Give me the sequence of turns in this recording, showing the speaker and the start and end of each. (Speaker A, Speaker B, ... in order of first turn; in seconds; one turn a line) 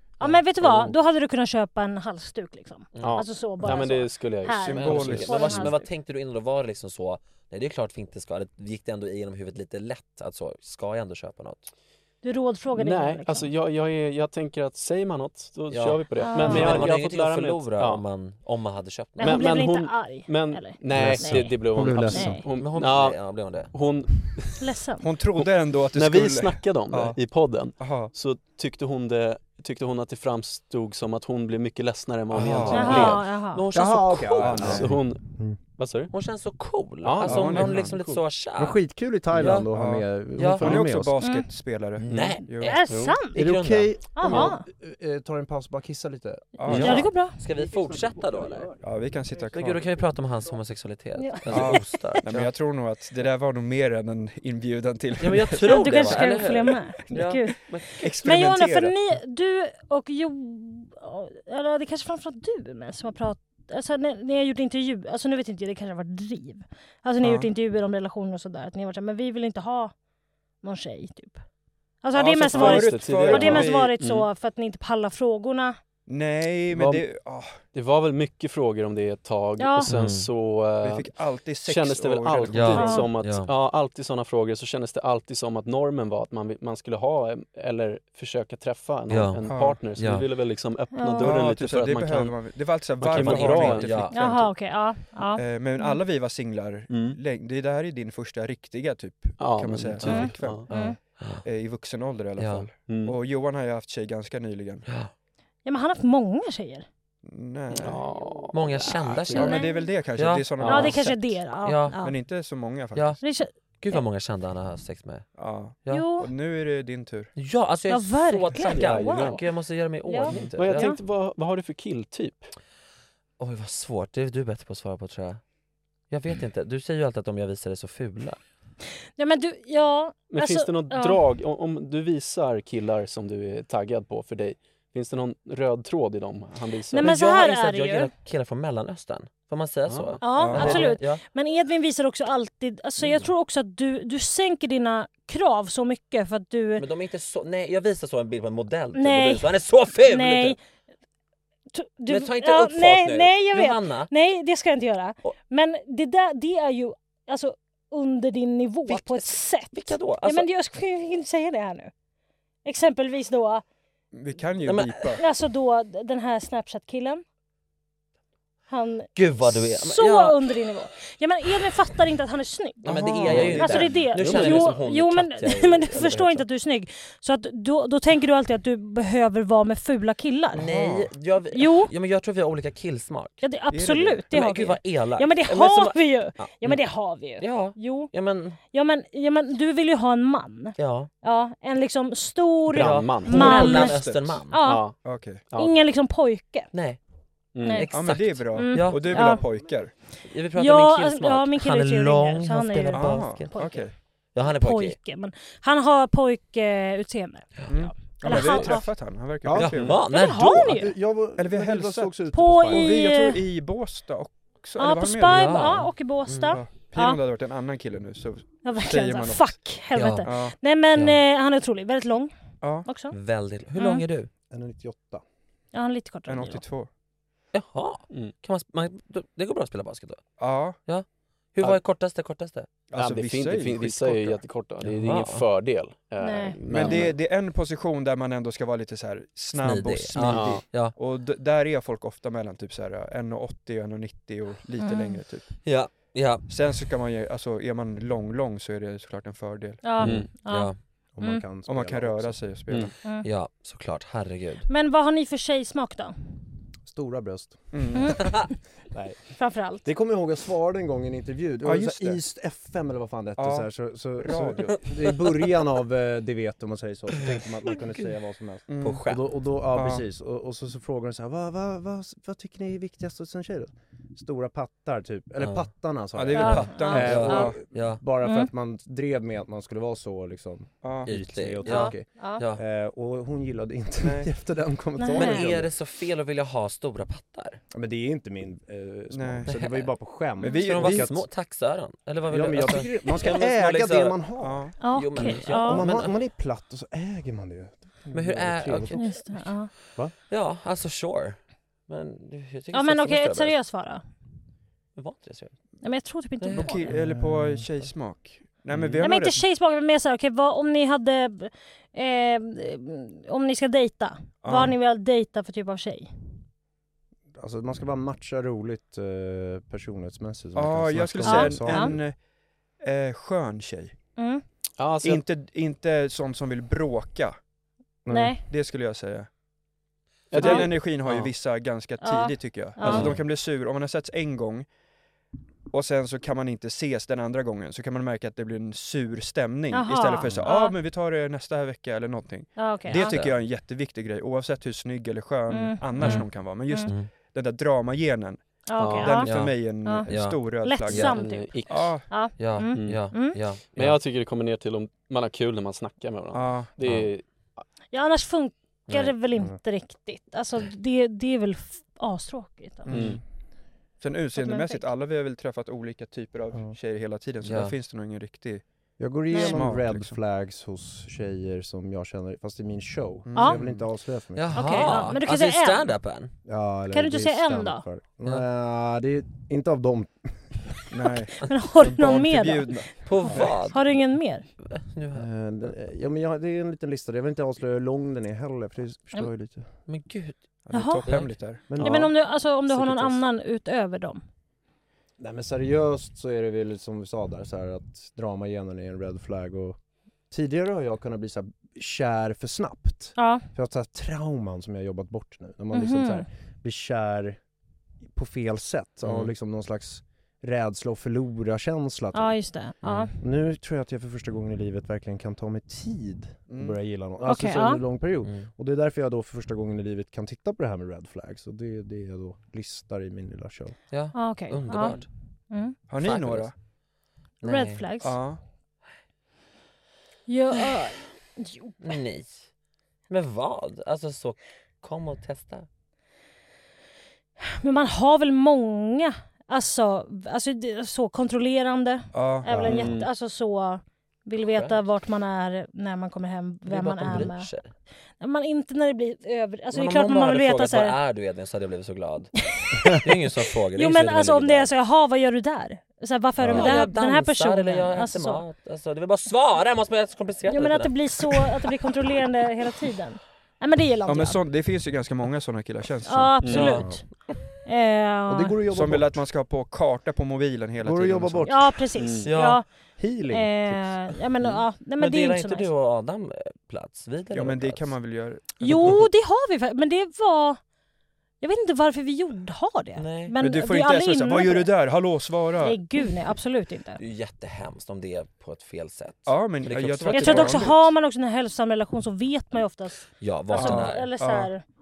Speaker A: 0.2-5.9
Speaker B: 0.6-0.9
Speaker C: 3.0-3.2
Speaker B: 3.0-5.5
Speaker D: 4.6-5.7
Speaker C: 4.7-11.7
Speaker A: 12.2-13.5
Speaker B: 12.8-18.1
Speaker C: 15.7-19.5
Speaker A: 16.2-16.9
Speaker A: 19.2-22.4
Speaker B: 19.2-24.6
Speaker E: 20.9-22.4
Speaker C: 22.5-23.7
Speaker A: 24.6-25.0
Speaker D: 25.0-27.2
Speaker B: 25.4-33.2
Speaker D: 27.8-28.1
Speaker D: 32.3-33.2
Speaker C: 32.6-34.8
Speaker A: 32.7-33.6
Speaker E: 33.7-35.6
Speaker D: 34.4-35.0
Speaker B: 34.5-35.2
Speaker B: 35.8-36.1
Speaker C: 36.1-38.8
Speaker B: 37.0-38.2
Speaker D: 37.3-38.0
Speaker E: 38.6-41.1
Speaker C: 39.3-39.7
Speaker D: 39.7-42.8
Speaker C: 40.4-40.9
Speaker A: 41.2-41.5
Speaker B: 42.0-43.2
Speaker C: 42.0-43.9
Speaker A: 42.6-43.4
Speaker E: 43.4-46.6
Speaker A: 44.2-44.6
Speaker D: 46.6-47.1
Speaker C: 46.7-48.8
Speaker A: 46.7-47.4
Speaker D: 48.8-49.9
Speaker C: 49.5-52.5
Speaker A: 51.2-52.1
Speaker D: 51.5-56.3
Speaker C: 55.2-58.1
Speaker A: 55.6-69.9
Speaker D: 58.0-59.0
Speaker D: 67.2-67.5
Speaker A: 70.6-71.4
Speaker A: 72.0-75.8
Speaker D: 72.1-73.9
Speaker B: 72.5-74.3
Speaker D: 76.1-77.6
Speaker B: 76.7-77.0
Speaker B: 77.7-81.1
Speaker A: 79.6-79.9
Speaker C: 79.9-80.3
Speaker D: 80.8-83.1
Speaker B: 81.6-92.4
Speaker C: 82.5-83.5
Speaker A: 82.8-83.1
Speaker C: 89.1-90.3
Speaker D: 89.5-89.8
Speaker A: 90.9-91.3
Speaker D: 91.2-94.6
Speaker B: 93.0-94.0
Speaker C: 93.1-94.2
Speaker A: 94.1-96.0
Speaker D: 95.3-100.9
Speaker B: 96.9-97.2
Speaker B: 99.4-100.7
Speaker A: 100.0-101.0
Speaker C: 100.7-101.5
Speaker D: 101.4-104.9
Speaker C: 102.4-102.7
Speaker B: 102.8-103.2
Speaker C: 104.9-105.1
Speaker A: 105.7-106.9
Speaker D: 107.2-108.0
Speaker B: 107.8-109.6
Speaker C: 108.5-109.6
Speaker A: 109.3-109.9
Speaker D: 109.3-111.4
Speaker C: 110.2-110.7
Speaker B: 110.6-111.0
Speaker A: 110.7-112.2
Speaker C: 111.6-112.0
Speaker D: 112.0-113.2
Speaker C: 113.0-113.2
Speaker A: 113.2-114.0
Speaker C: 113.8-115.3
Speaker D: 115.4-117.3
Speaker A: 115.9-116.3
Speaker C: 117.4-120.9
Speaker A: 117.9-119.4
Speaker B: 118.7-119.4
Speaker A: 120.1-121.0
Speaker B: 120.2-122.5
Speaker C: 123.4-125.4
Speaker C: 126.1-128.4
Speaker A: 129.2-131.2
Speaker B: 130.3-137.1
Speaker A: 136.9-138.1
Speaker C: 137.0-141.2
Speaker B: 139.9-140.6
Speaker A: 140.2-146.8
Speaker D: 140.3-141.0
Speaker C: 146.8-150.6
Speaker A: 148.9-149.5
Speaker A: 150.1-150.6
Speaker A: 151.7-161.9
Speaker C: 152.1-154.1
Speaker C: 158.9-160.5
Speaker A: 162.7-163.6
Speaker D: 164.1-165.2
Speaker C: 164.6-165.2
Speaker A: 165.2-167.2
Speaker A: 168.7-172.9
Speaker C: 169.2-170.4
Speaker C: 172.8-176.4
Speaker D: 172.8-174.0
Speaker A: 173.4-180.6
Speaker B: 174.1-174.8
Speaker C: 180.5-183.4
Speaker D: 180.6-181.1
Speaker A: 181.5-181.9
Speaker A: 183.4-188.1
Speaker D: 183.7-184.3
Speaker C: 184.3-186.8
Speaker C: 187.4-188.6
Speaker A: 188.7-194.9
Speaker C: 190.8-191.1
Speaker B: 192.7-193.7
Speaker C: 192.7-194.6
Speaker D: 193.3-194.4
Speaker B: 194.6-195.0
Speaker D: 195.0-195.4
Speaker A: 195.5-196.7
Speaker C: 196.7-197.0
Speaker B: 197.6-197.9
Speaker A: 197.6-197.9
Speaker C: 197.7-199.4
Speaker D: 197.9-199.9
Speaker A: 198.5-199.4
Speaker C: 200.3-203.8
Speaker A: 200.6-203.8
Speaker D: 202.9-203.9
Speaker C: 204.3-205.0
Speaker A: 204.5-208.8
Speaker D: 207.7-210.0
Speaker C: 208.3-208.7
Speaker E: 209.4-210.0
Speaker C: 209.6-210.7
Speaker A: 210.1-210.9
Speaker E: 210.5-213.0
Speaker D: 211.4-212.2
Speaker A: 212.3-213.4
Speaker D: 212.7-215.7
Speaker A: 214.8-217.2
Speaker C: 215.2-216.6
Speaker D: 216.5-219.6
Speaker A: 218.6-222.3
Speaker C: 219.9-220.3
Speaker D: 220.2-220.6
Speaker A: 222.8-223.1
Speaker C: 223.1-224.3
Speaker A: 223.8-224.0
Speaker E: 224.5-225.2
Speaker A: 225.7-226.6
Speaker D: 226.3-226.9
Speaker C: 227.5-230.2
Speaker D: 230.4-230.8
Speaker C: 230.9-232.7
Speaker D: 232.9-234.4
Speaker B: 232.9-237.2
Speaker C: 234.8-235.5
Speaker A: 236.2-236.6
Speaker D: 236.7-245.6
Speaker C: 239.6-240.9
Speaker B: 240.2-240.7
Speaker A: 244.8-245.2
Speaker C: 245.7-246.4
Speaker D: 246.5-249.9
Speaker A: 249.8-251.4
Speaker C: 250.0-250.8
Speaker B: 250.0-250.3
Speaker E: 251.2-252.6
Speaker D: 251.7-252.9
Speaker C: 253.2-254.7
Speaker A: 254.7-256.1
Speaker E: 256.9-257.8
Speaker D: 257.7-258.4
Speaker A: 257.9-258.5
Speaker E: 258.9-285.7
Speaker A: 259.4-259.9
Speaker D: 261.6-262.2
Speaker D: 263.4-263.7
Speaker D: 264.2-264.8
Speaker C: 267.3-268.1
Speaker D: 268.7-269.1
Speaker C: 268.8-269.2
Speaker D: 269.7-270.0
Speaker C: 275.4-275.7
Speaker D: 276.1-277.6
Speaker A: 276.3-277.5
Speaker C: 276.9-278.0
Speaker A: 278.2-278.5
Speaker D: 280.8-281.1
Speaker C: 281.1-282.6
Speaker A: 281.6-282.4
Speaker D: 284.0-284.3
Speaker A: 285.0-285.4
Speaker C: 285.1-287.6
Speaker E: 287.7-291.3
Speaker D: 289.1-289.6
Speaker C: 289.5-289.9
Speaker D: 290.4-291.1
Speaker C: 290.4-294.2
Speaker E: 292.3-294.7
Speaker D: 294.4-294.7
Speaker A: 294.8-295.9
Speaker C: 294.9-296.1
Speaker E: 295.3-299.0
Speaker C: 298.1-299.4
Speaker A: 298.9-299.7
Speaker C: 300.3-303.5
Speaker A: 302.7-304.0
Speaker C: 305.0-305.6
Speaker A: 305.8-306.9
Speaker D: 306.5-309.4
Speaker E: 306.9-307.7
Speaker C: 308.7-309.0
Speaker A: 309.0-316.1
Speaker D: 314.4-314.8
Speaker E: 317.4-322.0
Speaker D: 320.6-322.2
Speaker A: 321.2-322.0
Speaker D: 322.8-323.9
Speaker A: 324.2-324.4
Speaker B: 324.8-325.2
Speaker D: 325.0-327.4
Speaker E: 328.1-328.4
Speaker A: 328.1-328.4
Speaker D: 328.5-329.3
Speaker B: 330.3-331.3
Speaker D: 330.3-334.7
Speaker A: 330.4-330.7
Speaker A: 332.0-333.1
Speaker C: 332.8-333.2
Speaker D: 335.7-352.1
Speaker A: 339.7-340.8
Speaker A: 342.6-343.2
Speaker C: 342.9-343.4
Speaker A: 345.5-346.9
Speaker C: 346.0-346.3
Speaker A: 348.7-349.3
Speaker B: 348.8-349.2
Speaker C: 349.2-351.1
Speaker A: 349.8-350.1
Speaker A: 350.6-353.4
Speaker B: 351.1-351.9
Speaker C: 352.4-354.0
Speaker B: 352.7-353.2
Speaker B: 353.7-357.6
Speaker D: 356.3-356.7
Speaker A: 357.9-363.0
Speaker C: 358.9-359.1
Speaker D: 362.9-363.2
Speaker B: 362.9-363.2
Speaker D: 364.0-368.6
Speaker A: 364.4-364.9
Speaker C: 367.4-367.8
Speaker E: 369.0-374.9
Speaker A: 369.3-369.6
Speaker D: 369.4-370.2
Speaker D: 373.3-373.9
Speaker C: 374.4-376.3
Speaker A: 374.5-375.9
Speaker E: 376.5-380.4
Speaker A: 376.9-377.8
Speaker D: 380.9-383.5
Speaker A: 381.4-384.4
Speaker C: 383.1-384.0
Speaker C: 384.6-385.3
Speaker E: 385.1-389.7
Speaker C: 389.9-390.4
Speaker D: 390.7-391.7
Speaker A: 390.7-391.1
Speaker C: 391.1-391.9
Speaker A: 391.6-394.2
Speaker E: 391.7-392.1
Speaker E: 395.2-399.8
Speaker E: 400.3-407.4
Speaker A: 403.2-403.5
Speaker A: 405.7-406.2
Speaker E: 408.1-412.4
Speaker C: 409.0-409.3
Speaker A: 412.1-413.1
Speaker C: 412.8-413.1
Speaker E: 413.2-423.8
Speaker D: 416.5-416.8
Speaker A: 417.3-417.8
Speaker C: 418.2-418.5
Speaker C: 423.9-425.1
Speaker A: 424.1-425.8
Speaker D: 425.9-426.5
Speaker C: 426.0-426.5
Speaker C: 427.4-427.9
Speaker A: 427.4-428.2
Speaker D: 428.0-428.4
Speaker A: 430.3-431.9
Speaker C: 431.8-432.5
Speaker C: 433.1-435.7
Speaker A: 437.4-447.5
Speaker D: 442.1-442.6
Speaker E: 442.5-442.9
Speaker B: 442.6-443.1
Speaker C: 444.5-444.8
Speaker C: 446.7-447.7
Speaker A: 448.2-451.0
Speaker C: 449.7-452.3
Speaker A: 452.6-453.1
Speaker C: 452.9-454.7
Speaker A: 453.8-458.4
Speaker C: 456.5-461.4
Speaker A: 460.5-464.4
Speaker D: 464.1-466.8
Speaker A: 466.1-467.1
Speaker B: 466.4-466.8
Speaker C: 466.5-466.9
Speaker E: 466.8-467.0
Speaker A: 467.6-468.6
Speaker E: 468.3-469.2
Speaker D: 468.7-471.6
Speaker E: 470.8-471.8
Speaker A: 471.5-472.7
Speaker B: 472.0-472.3
Speaker C: 472.3-472.6
Speaker E: 473.0-474.2
Speaker A: 473.3-475.7
Speaker C: 474.9-477.9
Speaker D: 477.3-479.0
Speaker A: 478.6-480.6
Speaker A: 481.4-484.7
Speaker C: 483.0-483.3
Speaker D: 483.4-485.8
Speaker A: 485.6-487.0
Speaker C: 487.0-490.7
Speaker D: 489.3-490.9
Speaker A: 490.1-494.6
Speaker C: 493.2-494.1
Speaker D: 493.5-494.5